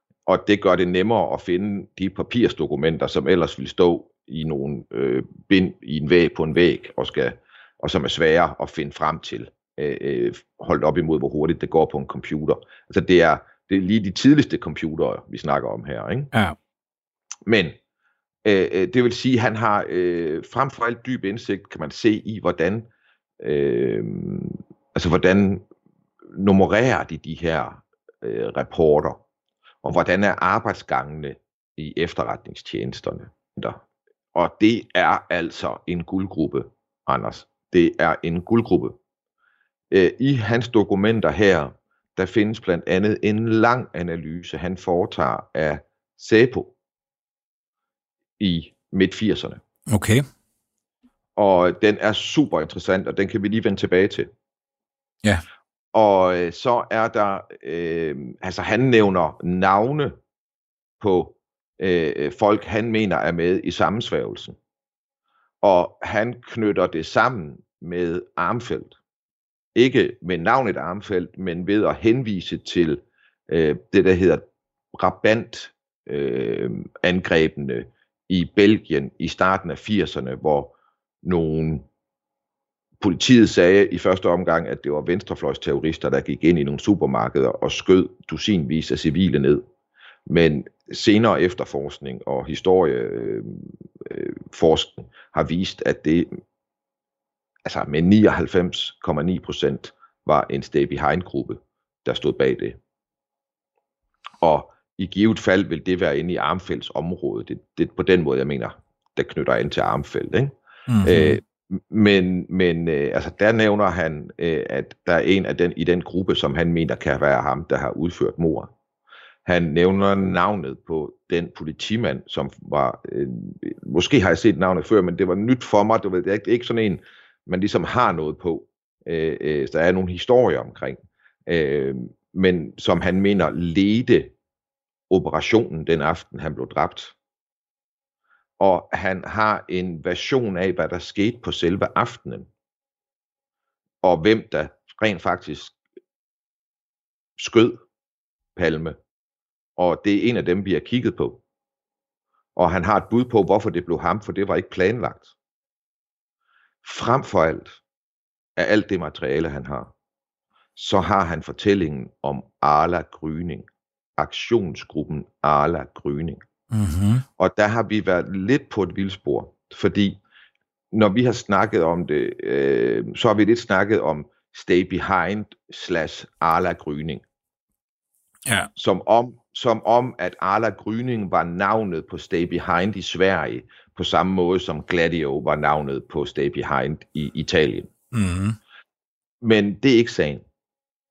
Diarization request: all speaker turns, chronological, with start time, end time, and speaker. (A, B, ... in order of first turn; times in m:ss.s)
0:00.3-0:16.3 A
0:17.5-0:17.8 A
0:18.4-0:22.9 A
0:23.4-0:25.6 A
0:26.3-0:29.2 A
0:29.8-0:33.8 A
0:34.4-0:39.0 A
0:39.9-0:46.7 A
0:48.4-0:49.6 A
0:49.9-0:50.2 B
0:51.4-0:54.3 A
0:55.9-1:00.2 A
1:01.0-1:04.6 A
1:05.6-1:09.0 A
1:09.8-1:21.9 A
1:23.0-1:29.6 A
1:30.3-1:36.4 A
1:37.6-1:42.8 A
1:44.4-1:58.7 A
1:50.9-1:51.4 B
1:59.5-2:14.3 A
2:15.1-2:17.2 A
2:18.6-2:22.5 A
2:24.0-2:25.8 A
2:27.4-2:27.8 A
2:28.6-2:29.0 A
2:29.8-2:31.4 A
2:32.6-2:35.3 A
2:36.8-2:37.8 A
2:38.6-2:39.9 A
2:40.8-2:46.4 A
2:46.7-2:47.2 B
2:47.4-2:50.2 A
2:50.9-2:57.2 A
2:58.8-3:07.9 A
3:08.1-3:08.6 B
3:09.4-3:10.4 A